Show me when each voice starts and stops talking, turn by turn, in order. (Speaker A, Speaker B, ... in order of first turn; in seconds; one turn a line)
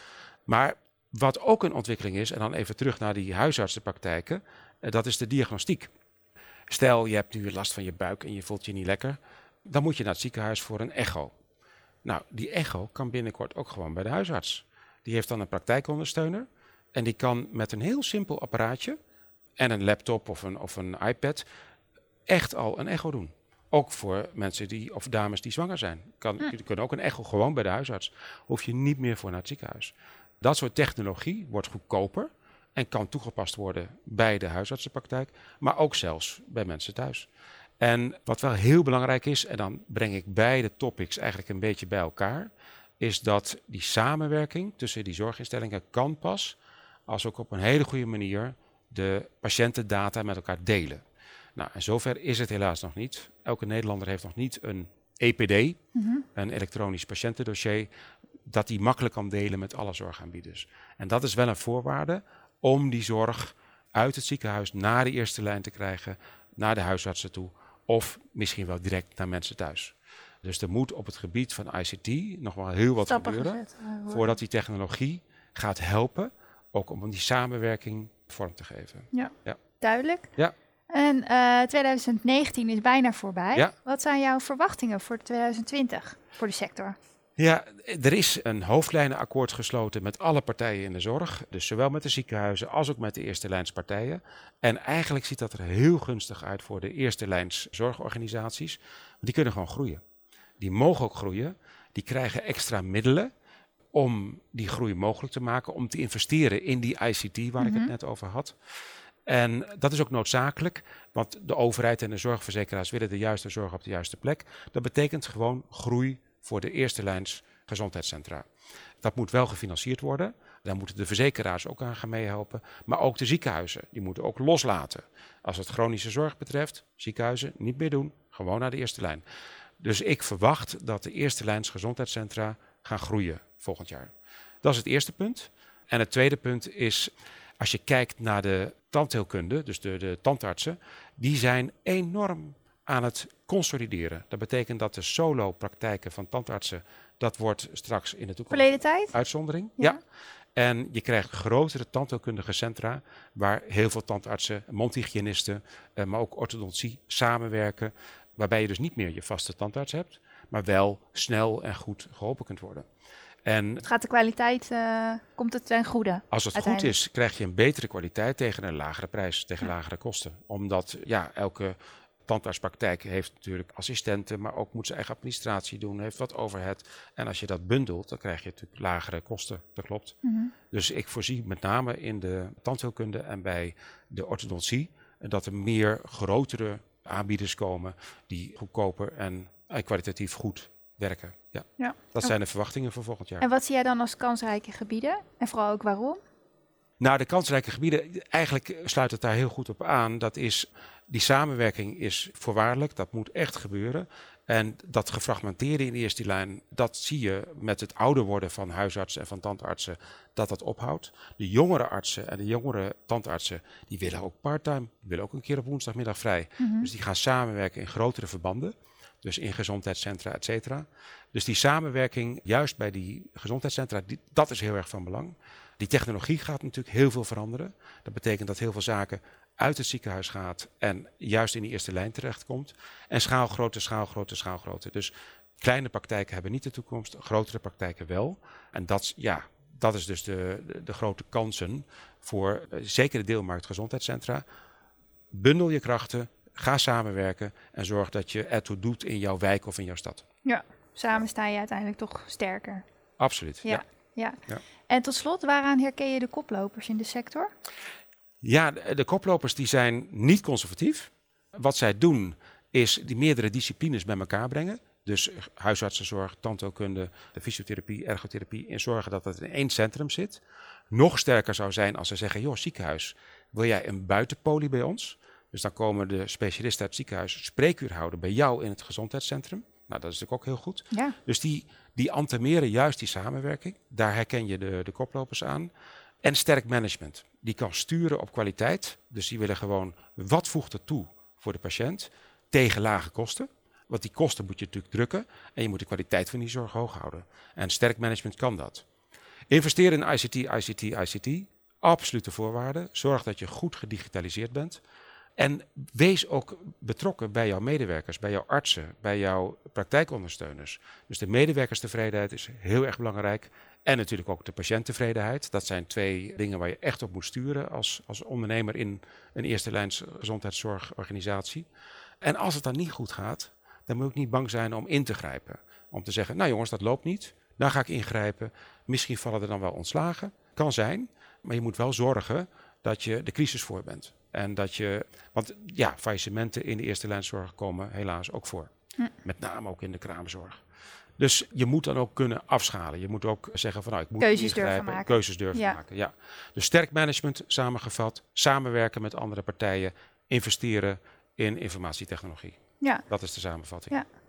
Speaker A: 0.5-5.9
Speaker A: 6.7-11.3
Speaker A: 12.0-19.0
Speaker A: 19.6-21.4
Speaker A: 22.3-37.3
Speaker A: 37.8-51.0
Speaker A: 51.6-55.8
Speaker B: 56.0-56.2
Speaker A: 56.4-57.9
Speaker A: 58.5-79.6
Speaker B: 73.1-74.3
Speaker B: 79.1-80.3
Speaker B: 80.9-87.0
Speaker A: 87.4-100.0
Speaker A: 100.6-103.3
Speaker A: 103.9-108.5
Speaker B: 107.6-107.9
Speaker A: 109.3-118.5
Speaker A: 119.0-129.2
Speaker A: 129.8-150.0
Speaker B: 148.5-149.1
Speaker A: 150.6-162.9
Speaker A: 163.4-163.8
Speaker B: 163.8-166.9
Speaker A: 166.3-180.2
Speaker B: 180.2-180.5
Speaker A: 180.7-193.4
Speaker B: 191.8-192.3
Speaker B: 193.4-196.2
Speaker A: 197.0-244.4
Speaker B: 216.6-216.9
Speaker A: 245.3-250.2
Speaker B: 250.4-252.8
Speaker A: 253.2-253.8
Speaker B: 253.6-254.4
Speaker B: 254.9-257.5
Speaker A: 258.4-285.7
Speaker A: 286.2-298.9
Speaker A: 299.5-304.8
Speaker A: 305.4-321.7
Speaker A: 322.2-338.7
Speaker A: 339.2-340.6
Speaker A: 341.2-352.6
Speaker B: 344.2-345.8
Speaker A: 353.1-354.0